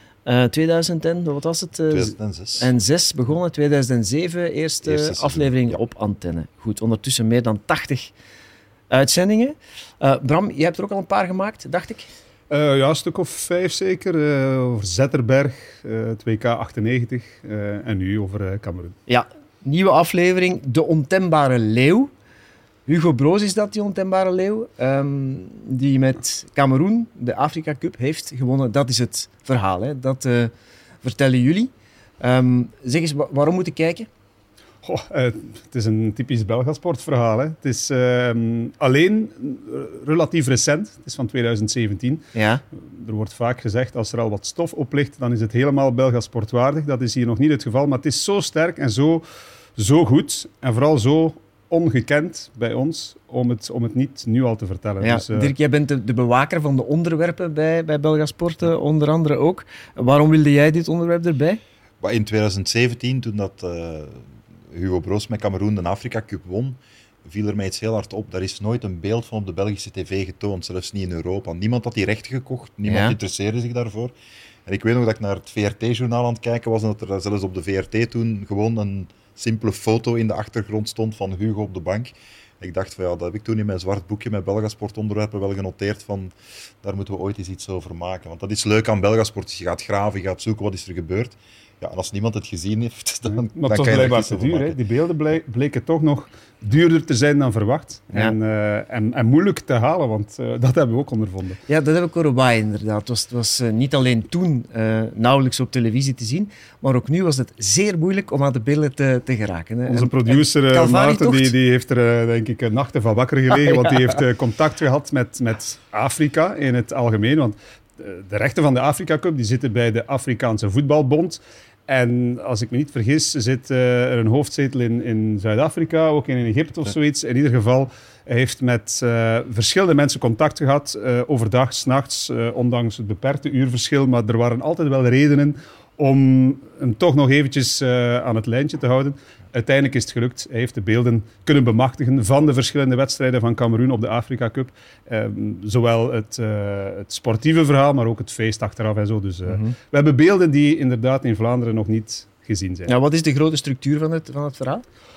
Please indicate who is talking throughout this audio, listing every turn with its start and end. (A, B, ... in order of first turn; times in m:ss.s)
0:00.3-0:08.1 A
0:01.9-0:02.7 B
0:04.8-0:05.8 B
0:08.9-0:12.0 A
0:12.5-0:19.0 C
0:19.1-0:22.1 A
0:22.9-0:30.5 A
0:31.0-0:34.1 A
0:34.8-0:49.2 C
0:42.3-0:42.6 A
0:49.8-0:55.5 C
0:55.0-1:01.6 A
1:02.0-1:14.1 B
1:12.9-1:13.2 A
1:14.7-1:34.8 B
1:33.3-1:41.6 C
1:38.1-1:38.4 A
1:41.7-1:51.5 A
1:49.9-2:32.9 C
1:53.5-1:53.9 A
2:29.5-2:29.7 A
2:32.9-2:34.8 A